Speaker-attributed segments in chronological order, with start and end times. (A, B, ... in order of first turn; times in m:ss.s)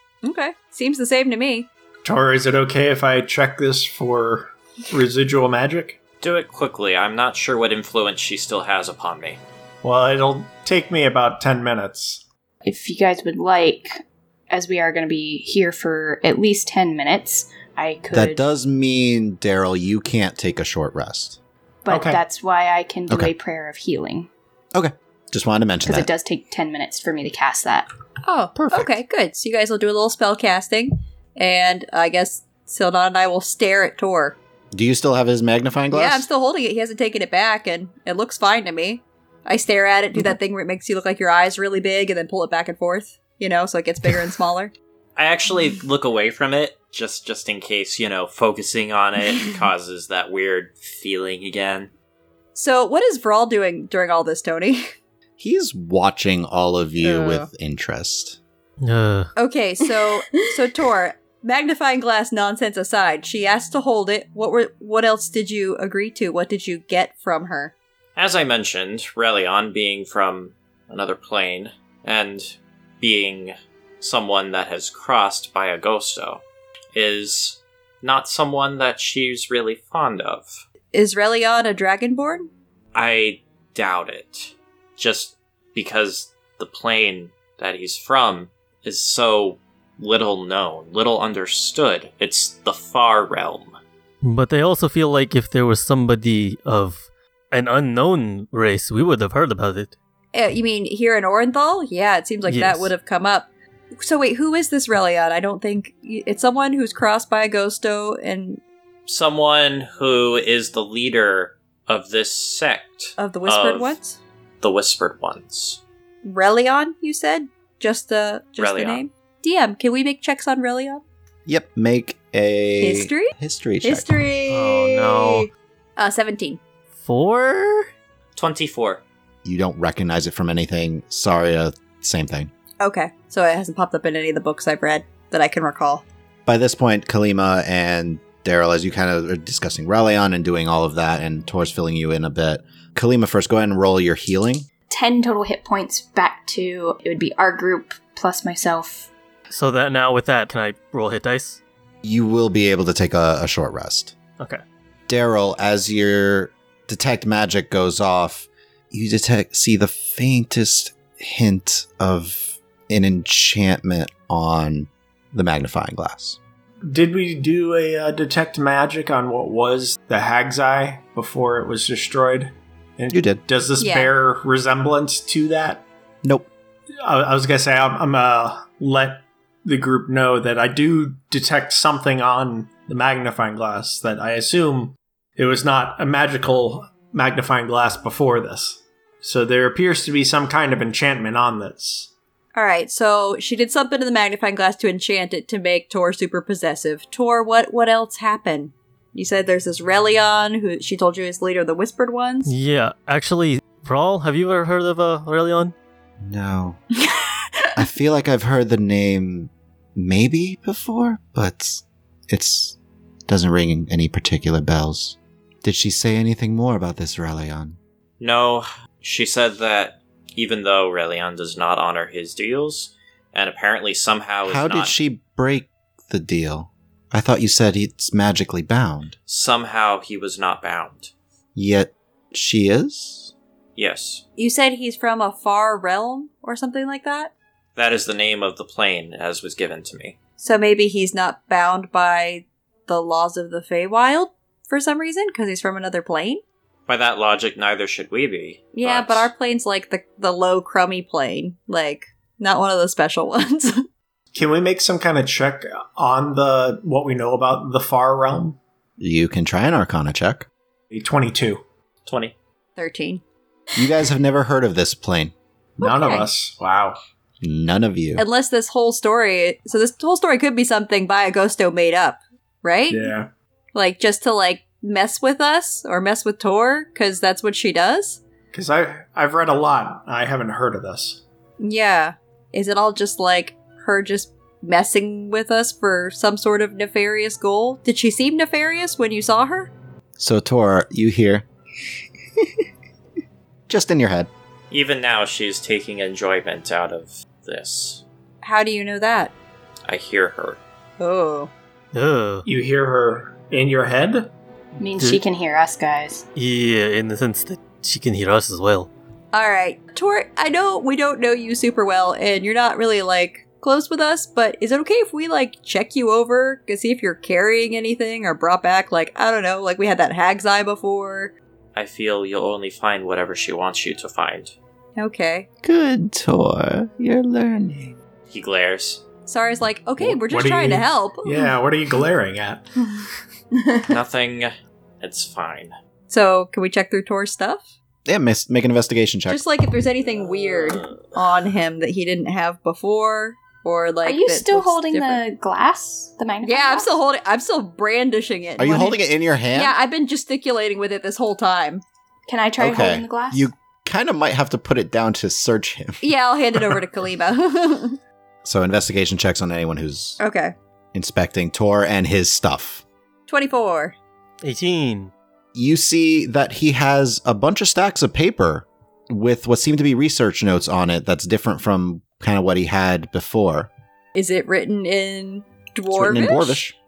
0:00.2-0:01.7 A
0:02.0-0:06.0 B
0:06.2-0:09.4 C
0:09.8-0:12.2 B
0:12.6-0:18.4 D
0:18.1-0:21.4 E
0:21.8-0:24.3 D
0:21.9-0:22.2 B
0:24.7-0:26.1 E
0:25.8-0:27.9 D
0:28.2-0:34.4 A
0:28.5-0:29.0 E
0:34.7-0:36.2 E
0:35.9-0:44.7 A
0:45.2-0:51.9 C
0:52.5-0:54.9 A
0:55.4-0:58.4 E
0:57.0-0:57.5 A
0:58.8-0:59.3 F
0:59.4-1:07.7 A
1:08.2-1:16.4 C
1:16.9-1:20.6 C
1:20.9-1:22.5 A
1:22.9-1:33.8 C
1:34.2-1:39.9 F
1:40.3-1:43.5 A
1:42.5-1:42.9 F
1:44.0-1:48.6 A
1:49.0-1:54.0 C
1:53.2-1:54.2 A
1:54.6-1:55.8 C
1:56.2-2:01.0 A
1:58.6-1:59.0 C
2:01.4-2:04.2 E
2:02.8-2:06.6 A
2:04.5-2:05.5 F
2:07.0-2:07.9 F
2:08.4-2:09.0 C
2:09.4-2:12.5 E
2:12.8-2:16.0 A
2:16.4-2:24.7 E
2:24.9-2:29.1 D
2:29.5-2:31.6 F
2:32.0-2:34.1 E
2:35.1-2:46.4 E
2:46.8-2:55.8 B
2:53.1-2:53.4 E
2:53.8-2:54.1 A
2:56.2-2:56.5 E
2:57.0-3:12.1 B
3:12.5-3:22.5 A
3:22.4-3:25.7 F
3:26.2-3:26.8 E
3:27.1-3:27.7 A
3:27.8-3:32.8 E
3:33.3-3:37.8 E
3:38.2-3:44.9 C
3:44.4-3:49.2 E
3:49.3-3:51.1 C
3:51.5-3:53.3 E
3:53.8-3:54.2 C
3:54.4-3:57.3 A
3:57.8-4:00.2 C
4:00.4-4:06.4 A
4:06.9-4:09.3 C
4:08.7-4:13.8 A
4:14.3-4:18.6 B
4:19.0-4:20.5 E
4:20.9-4:21.6 B
4:22.0-4:22.3 C
4:22.8-4:23.2 A
4:23.8-4:25.3 E
4:25.8-4:27.0 B
4:25.8-4:26.3 A
4:27.4-4:28.2 E
4:28.2-4:33.1 A
4:32.9-4:33.3 B
4:33.7-4:38.2 A
4:38.5-4:41.2 B
4:41.6-4:49.7 A
4:50.2-4:51.4 E
4:53.7-4:54.3 E
4:54.7-4:58.0 C
4:58.4-4:59.3 A
4:59.9-5:00.6 C
5:01.0-5:01.5 A
5:01.9-5:02.4 F
5:02.4-5:04.3 B
5:04.8-5:06.2 D
5:06.4-5:08.9 F
5:09.3-5:21.3 A
5:21.7-5:24.5 C
5:25.0-5:25.5 A
5:25.6-5:28.0 E
5:28.3-5:29.0 C
5:29.3-5:31.5 A
5:30.0-5:32.6 B
5:33.8-5:35.7 C
5:36.1-5:37.6 A
5:38.0-5:39.4 E
5:39.3-5:45.2 A
5:44.0-5:47.0 D
5:46.4-5:49.0 A
5:48.6-5:49.7 E
5:49.5-5:51.8 A
5:52.3-5:53.5 D
5:52.6-5:56.0 E
5:56.0-5:58.0 A
5:58.4-6:00.2 E
6:00.2-6:00.5 A
6:00.9-6:02.8 E
6:03.3-6:03.9 A
6:04.4-6:05.1 F
6:05.5-6:13.7 E
6:14.1-6:16.6 A
6:15.9-6:16.8 E